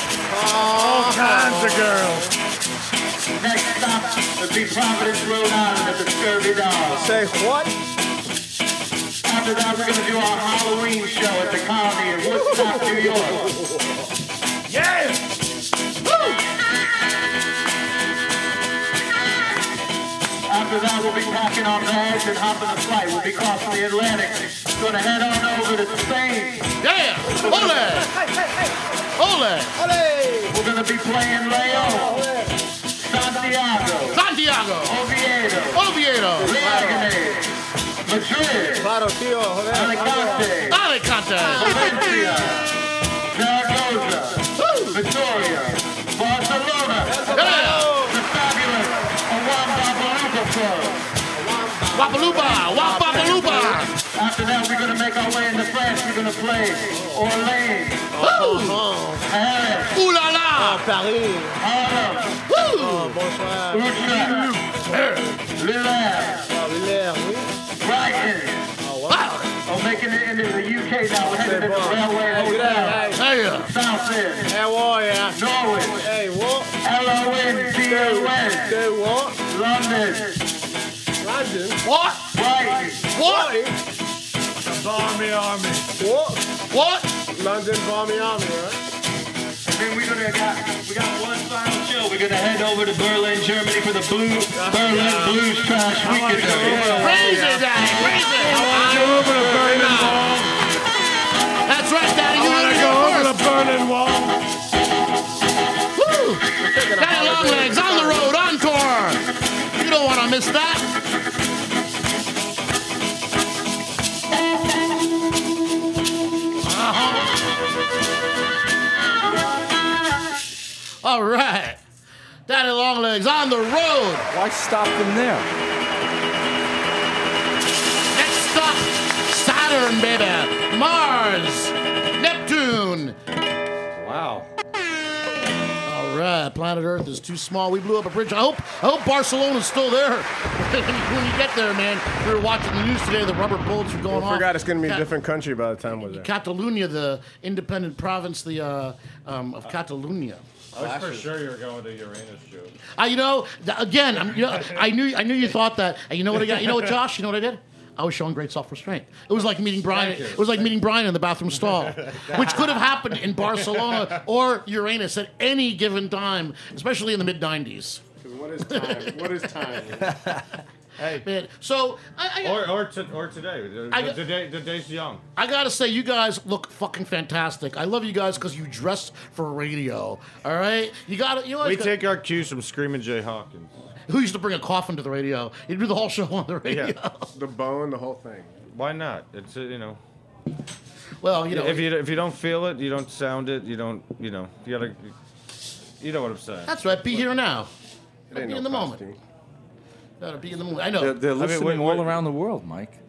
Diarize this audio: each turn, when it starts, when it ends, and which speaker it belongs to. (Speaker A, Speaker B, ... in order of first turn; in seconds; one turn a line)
Speaker A: 0.3-2.0
Speaker B: 0.7-2.4
Speaker C: 3.4-7.1
Speaker A: 7.0-7.7
Speaker C: 9.2-13.5
Speaker A: 12.4-12.8
Speaker C: 20.5-26.7
Speaker D: 26.8-28.1
Speaker A: 27.4-28.0
Speaker D: 29.2-29.8
Speaker A: 29.8-30.5
Speaker C: 30.5-32.3
Speaker A: 31.9-32.5
Speaker C: 33.0-34.2
Speaker D: 34.1-35.0
Speaker C: 34.9-35.8
Speaker D: 35.7-36.6
Speaker C: 36.4-38.9
Speaker A: 36.5-37.1
Speaker A: 38.8-40.6
Speaker C: 39.7-40.8
Speaker D: 40.7-41.9
Speaker C: 41.5-42.8
Speaker C: 43.3-51.1
Speaker D: 44.6-45.0
Speaker A: 47.0-48.2
Speaker D: 47.3-47.9
Speaker A: 51.4-53.9
Speaker D: 51.9-53.9
Speaker C: 54.1-58.2
Speaker A: 56.9-57.2
Speaker A: 58.1-59.3
Speaker D: 58.2-58.9
Speaker C: 59.2-60.0
Speaker D: 59.9-60.9
Speaker A: 60.5-61.6
Speaker C: 61.6-62.5
Speaker D: 62.5-63.2
Speaker A: 62.7-64.8
Speaker C: 63.7-64.6
Speaker D: 64.9-65.3
Speaker C: 65.5-66.5
Speaker A: 66.5-67.5
Speaker C: 67.8-68.8
Speaker A: 68.8-69.2
Speaker D: 69.1-69.5
Speaker C: 69.6-74.5
Speaker A: 71.2-73.2
Speaker D: 73.2-73.7
Speaker A: 74.5-75.4
Speaker C: 75.3-76.1
Speaker A: 76.0-76.7
Speaker C: 76.8-78.8
Speaker A: 77.8-79.4
Speaker C: 79.4-80.5
Speaker A: 81.2-81.8
Speaker D: 81.8-82.3
Speaker C: 82.3-83.1
Speaker A: 83.1-83.8
Speaker D: 83.2-83.5
Speaker B: 84.6-85.9
Speaker A: 86.0-86.6
Speaker D: 86.7-87.1
Speaker A: 87.3-88.8
Speaker C: 89.7-97.5
Speaker A: 94.5-95.4
Speaker A: 96.0-100.4
Speaker D: 96.9-99.3
Speaker C: 98.8-99.5
Speaker B: 98.9-100.4
Speaker D: 99.9-100.2
Speaker D: 101.7-103.5
Speaker B: 102.5-104.3
Speaker D: 106.0-110.9
Speaker A: 106.6-108.4
Speaker D: 116.6-117.4
Speaker D: 121.0-121.8
Speaker D: 122.5-124.3
Speaker E: 124.3-125.5
Speaker D: 128.1-133.2
Speaker E: 133.9-134.5
Speaker D: 135.8-145.1
Speaker A: 144.1-146.3
Speaker D: 146.0-150.4
Speaker B: 150.7-152.7
Speaker A: 150.8-151.3
Speaker D: 153.0-168.1
Speaker B: 159.9-160.6
Speaker B: 161.8-162.8
Speaker B: 163.5-164.1
Speaker A: 168.2-170.2
Speaker D: 168.7-169.4
Speaker B: 171.0-171.2
Speaker D: 171.2-172.8
Speaker B: 172.4-175.2
Speaker D: 173.9-174.2
Speaker D: 175.4-182.0
Speaker B: 181.6-183.7
Speaker D: 184.1-187.3
Speaker B: 186.6-186.9
Speaker A: 187.3-188.6
Speaker B: 188.7-190.0
Speaker D: 191.2-191.9
Speaker B: 191.5-195.1
Speaker B: 196.0-196.7
Speaker D: 196.7-197.7
Speaker A: 198.3-199.2
Speaker D: 198.3-199.0
Speaker D: 200.2-201.2
Speaker E: 201.0-203.0
Speaker B: 201.3-202.2